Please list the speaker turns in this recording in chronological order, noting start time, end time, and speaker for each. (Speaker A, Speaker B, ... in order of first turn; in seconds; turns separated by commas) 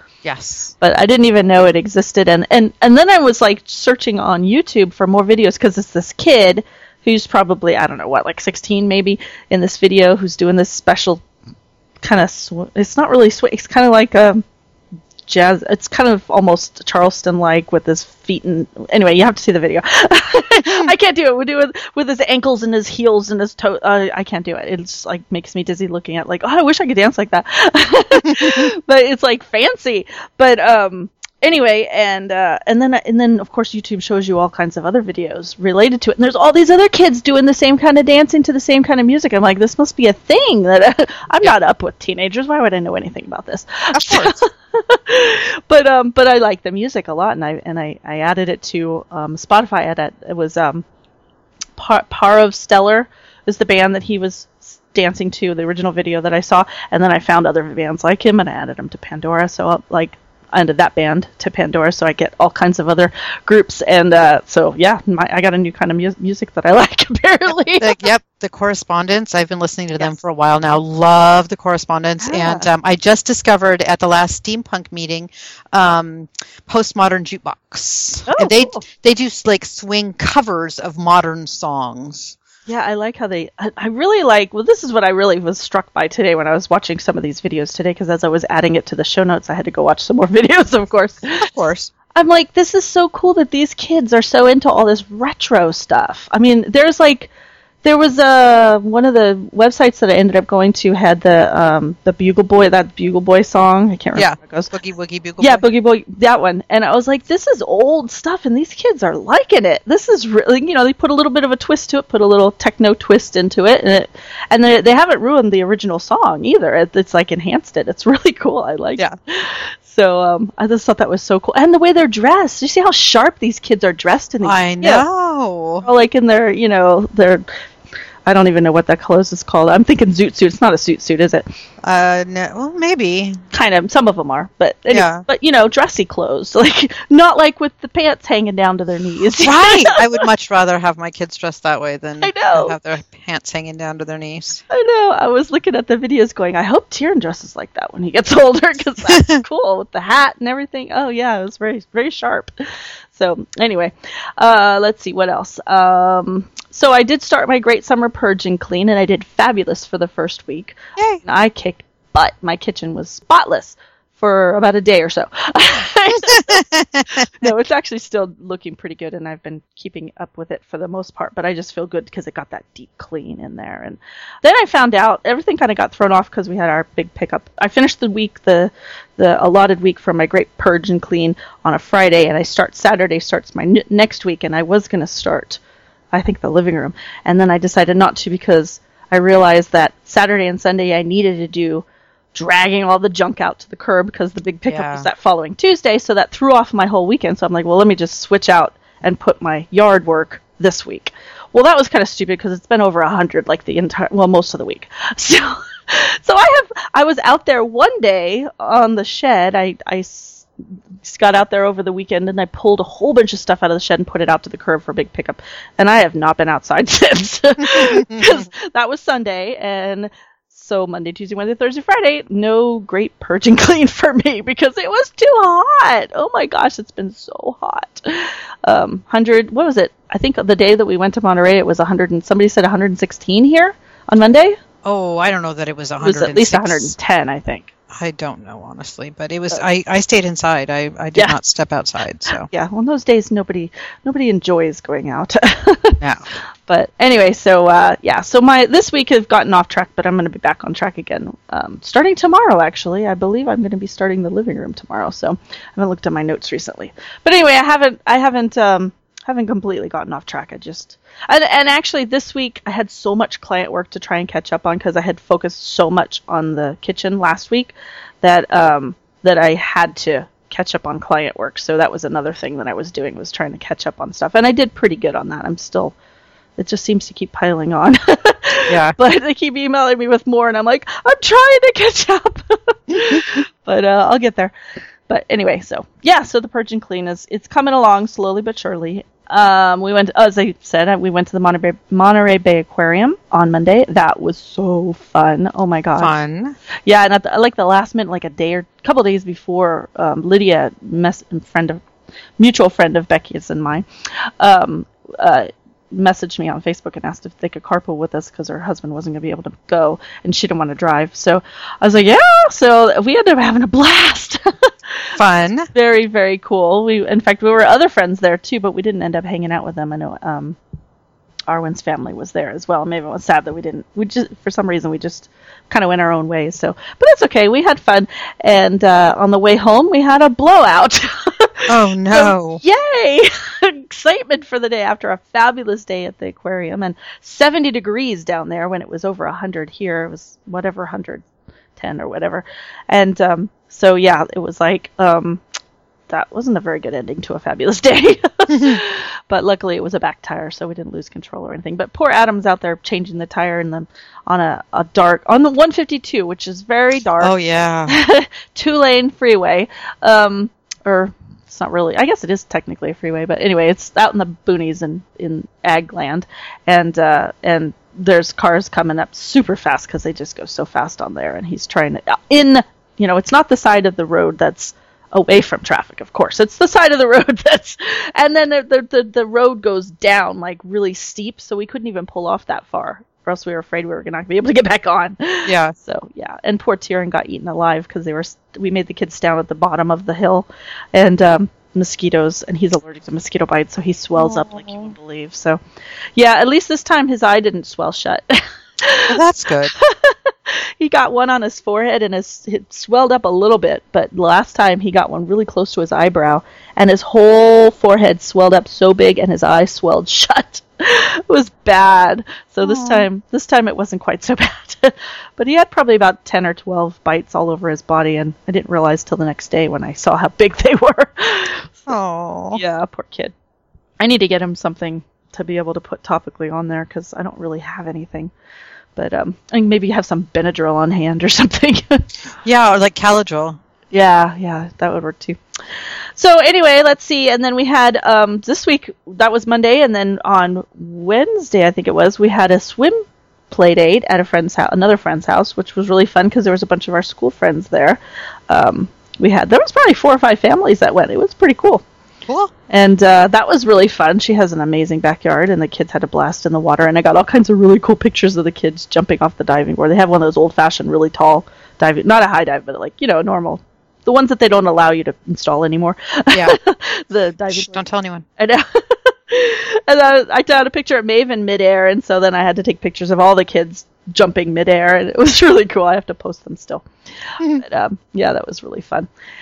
Speaker A: 0.2-0.7, Speaker B: 0.8-11.2, Speaker B: 12.0-14.4, Speaker B: 15.2-50.8, Speaker A: 28.2-28.7, Speaker A: 43.9-44.4, Speaker B: 51.8-68.0, Speaker A: 67.8-82.3, Speaker B: 72.2-72.7, Speaker B: 78.3-78.8, Speaker B: 82.7-91.5, Speaker A: 91.4-91.9, Speaker B: 92.1-97.3, Speaker B: 97.8-104.7, Speaker A: 104.2-105.7, Speaker B: 105.4-125.0, Speaker A: 124.4-125.8, Speaker B: 125.8-127.5, Speaker B: 128.2-131.4, Speaker A: 131.8-133.4, Speaker B: 133.5-140.2, Speaker A: 134.9-135.2, Speaker A: 139.4-144.6, Speaker B: 142.2-142.8, Speaker B: 144.7-152.5, Speaker A: 149.1-149.4, Speaker B: 153.1-166.6, Speaker A: 161.0-161.2, Speaker A: 166.2-167.5, Speaker B: 167.3-185.6, Speaker B: 186.1-234.6, Speaker A: 194.7-195.1, Speaker A: 217.7-218.2, Speaker A: 234.8-236.9, Speaker B: 236.0-237.7, Speaker A: 237.9-242.5, Speaker B: 242.3-246.0, Speaker A: 246.0-246.2, Speaker B: 246.7-275.9, Speaker B: 276.6-284.5, Speaker A: 278.7-278.9, Speaker B: 285.1-296.1, Speaker A: 296.0-296.6, Speaker B: 296.8-301.8, Speaker B: 302.4-315.1, Speaker A: 315.2-315.7, Speaker B: 315.7-320.6, Speaker B: 321.5-341.2, Speaker A: 331.7-332.6, Speaker B: 341.8-345.4, Speaker B: 346.1-357.3, Speaker A: 348.5-348.8, Speaker A: 357.2-357.9, Speaker B: 357.9-395.6, Speaker A: 385.4-385.7, Speaker A: 394.1-394.9, Speaker B: 396.1-399.1, Speaker A: 399.1-399.7, Speaker B: 399.7-421.9, Speaker A: 412.6-413.1, Speaker A: 421.9-422.6, Speaker B: 422.5-423.3, Speaker B: 424.0-428.3, Speaker B: 428.9-432.1, Speaker A: 432.4-433.6, Speaker B: 433.9-451.8, Speaker A: 452.3-452.5, Speaker B: 452.7-467.8, Speaker A: 466.3-466.6, Speaker A: 467.5-468.2, Speaker B: 468.4-476.9, Speaker B: 477.6-479.1